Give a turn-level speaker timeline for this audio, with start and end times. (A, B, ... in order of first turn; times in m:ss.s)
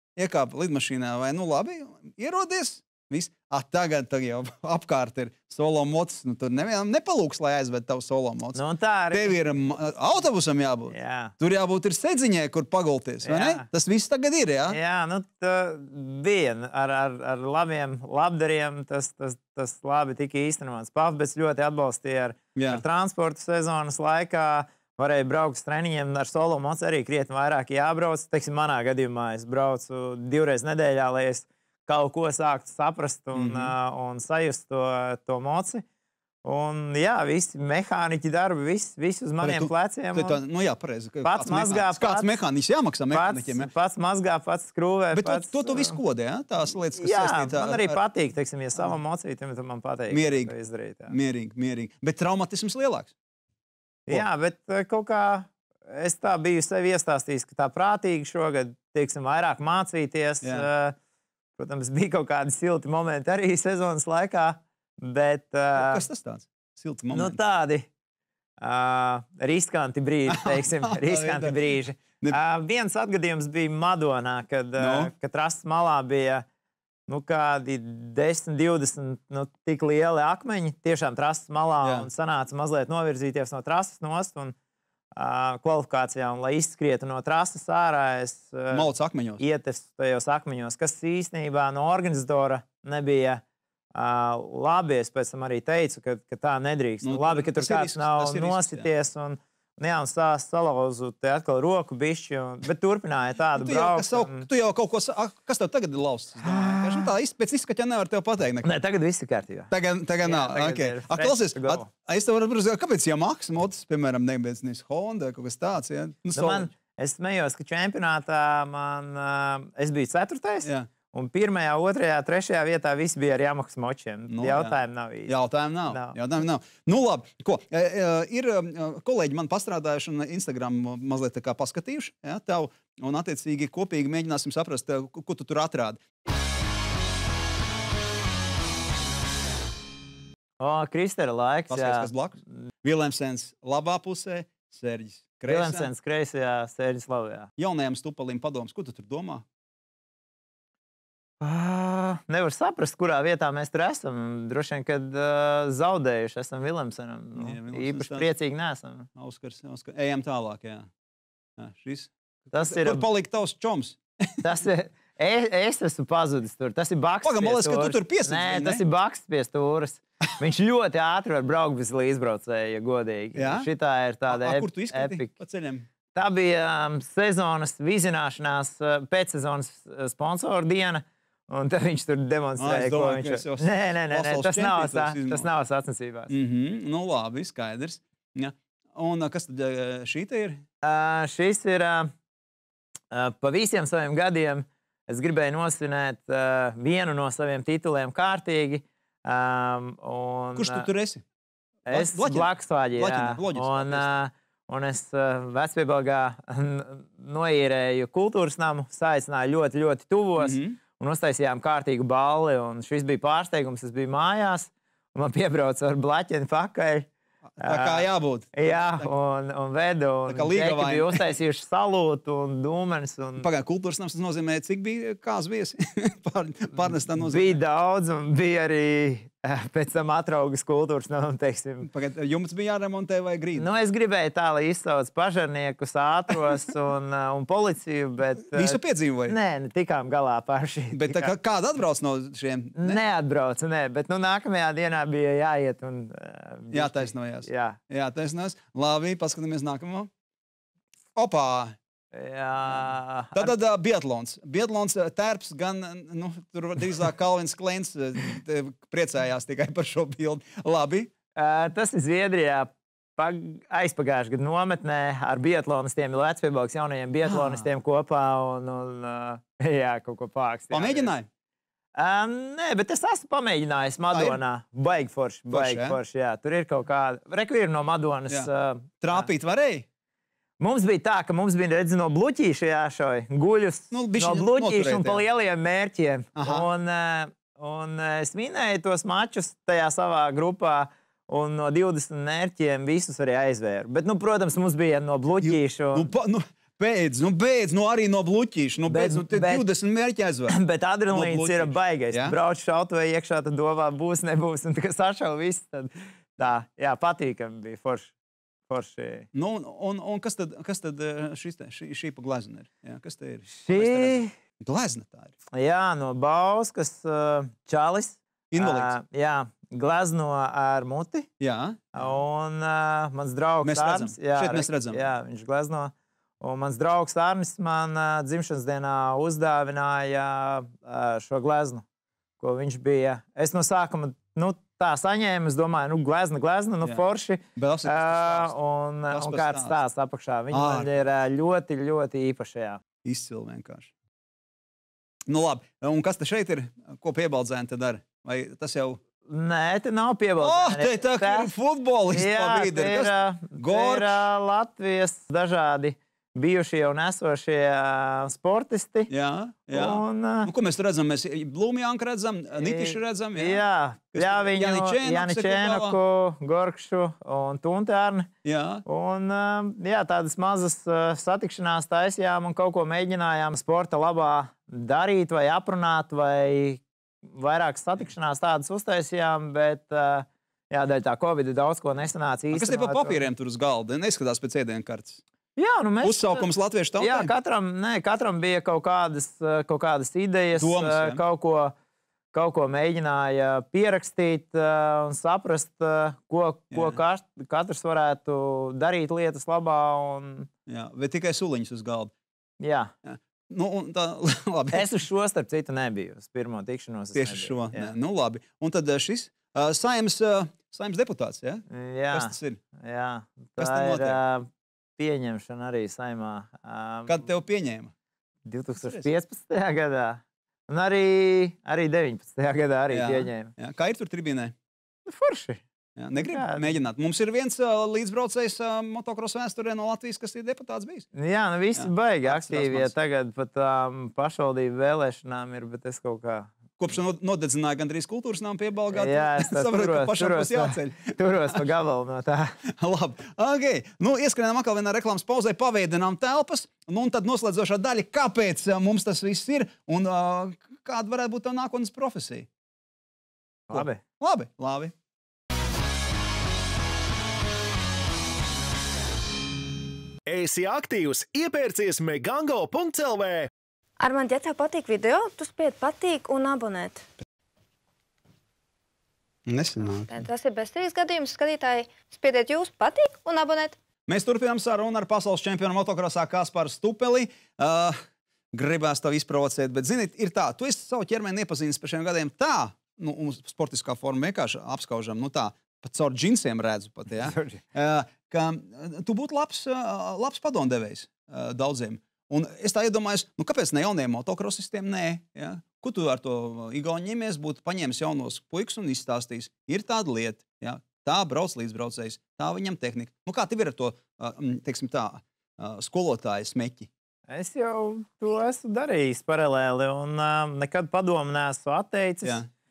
0:00.2-0:08.6 A
0:08.5-0:09.4 B
0:09.1-0:14.8 A
0:10.9-0:11.3 B
0:13.2-0:13.7 B
0:14.7-0:35.8 B
0:22.6-0:22.8 A
0:33.3-0:33.7 A
0:36.4-0:40.4 B
0:39.4-0:43.7 A
0:41.2-0:42.3 B
0:43.1-0:46.0 B
0:45.1-0:48.0 A
0:47.0-0:51.2 B
0:50.1-0:50.5 A
0:51.1-0:53.1 A
0:54.1-1:01.0 B
1:00.4-1:00.7 A
1:01.6-1:06.0 B
1:05.7-1:07.4 A
1:07.1-1:07.9 B
1:08.6-1:16.4 B
1:10.3-1:11.6 A
1:14.8-1:15.1 A
1:17.1-1:24.6 B
1:21.8-1:22.1 A
1:25.2-1:33.4 B
1:28.7-1:29.4 A
1:33.9-1:44.5 B
1:37.0-1:38.9 A
1:43.6-1:48.7 A
1:46.4-1:47.1 B
1:48.6-1:49.7 B
1:49.7-1:56.7 A
1:50.2-1:51.9 B
1:56.3-2:05.4 B
2:04.3-2:16.0 A
2:05.9-2:06.2 B
2:20.6-2:22.1 B
2:21.7-2:25.9 A
2:25.5-2:27.5 B
2:27.6-2:29.4 A
2:31.4-2:39.1 B
2:37.4-2:38.3 A
2:39.2-2:40.9 A
2:41.6-2:44.4 A
2:42.5-2:43.0 B
2:44.4-2:55.3 B
2:47.2-2:48.8 A
2:53.4-2:53.7 A
2:54.3-2:55.9 A
2:56.1-3:06.3 B
3:02.6-3:05.5 A
3:06.3-3:10.6 A
3:10.8-3:12.1 B
3:13.1-3:20.9 B
3:20.6-3:21.2 A
3:21.9-3:24.2 A
3:21.9-3:43.5 B
3:30.4-3:30.8 A
3:37.6-3:39.1 A
3:40.3-3:41.3 A
3:43.4-3:47.6 A
3:47.2-3:51.9 B
3:51.9-3:53.7 A
3:53.6-4:01.3 B
3:58.5-3:59.4 A
4:00.9-4:03.0 A
4:02.8-4:07.8 B
4:06.7-4:10.1 A
4:11.2-4:11.8 A
4:12.1-4:13.5 B
4:12.7-4:21.1 A
4:21.4-4:31.1 B
4:27.3-4:27.7 A
4:30.7-4:31.3 A
4:32.0-4:39.3 B
4:34.1-4:34.4 A
4:35.5-4:36.0 A
4:39.0-4:39.8 A
4:40.6-4:56.1 B
4:43.9-4:45.2 A
4:46.4-4:46.7 A
4:55.4-5:00.6 A
4:58.9-4:59.7 B
5:00.5-5:08.1 B
5:01.1-5:02.4 A
5:08.7-5:09.3 B
5:09.3-5:15.3 A
5:13.5-5:14.3 B
5:15.5-5:21.3 B
5:18.5-5:19.0 A
5:21.4-5:22.1 A
5:22.0-5:31.8 B
5:23.6-5:25.0 A
5:32.4-5:42.8 B
5:37.6-5:38.6 A
5:39.1-5:39.8 A
5:40.5-5:40.9 A
5:43.0-5:43.9 A
5:45.3-5:49.0 A
5:49.2-5:51.5 B
5:50.4-5:54.2 A
5:52.1-5:59.1 B
5:59.1-6:03.6 A
5:59.7-6:00.5 B
6:02.6-6:08.3 B
6:04.1-6:06.0 A
6:08.4-6:08.8 A
6:08.8-6:23.2 B
6:22.5-6:25.2 A
6:25.6-6:31.7 B
6:26.0-6:27.3 A
6:30.6-6:31.2 A
6:32.3-6:40.5 B
6:36.7-6:37.0 A
6:40.7-6:42.1 A
6:42.6-6:42.9 B
6:43.0-6:44.9 A
6:44.7-6:47.9 B
6:47.1-6:52.6 A
6:51.7-6:57.2 B
6:53.6-6:54.2 A
6:57.1-6:57.9 A
6:58.4-7:03.5 B
6:58.8-6:59.1 A
7:02.9-7:04.6 A
7:05.1-7:05.6 B
7:06.0-7:11.1 A
7:06.2-7:06.7 B
7:11.1-7:16.5 B
7:11.8-7:12.9 A
7:16.8-7:21.6 A
7:18.9-7:22.6 B
7:22.7-7:32.5 A
7:33.7-7:34.0 B
7:33.7-7:34.9 A
7:40.3-7:43.5 C
7:44.0-7:47.0 D
7:49.5-7:50.1 A
7:50.1-7:53.8 D
7:54.1-7:58.0 A
7:58.5-8:26.9 A
8:07.2-8:07.6 B
8:27.3-8:32.4 B
8:32.2-8:32.5 A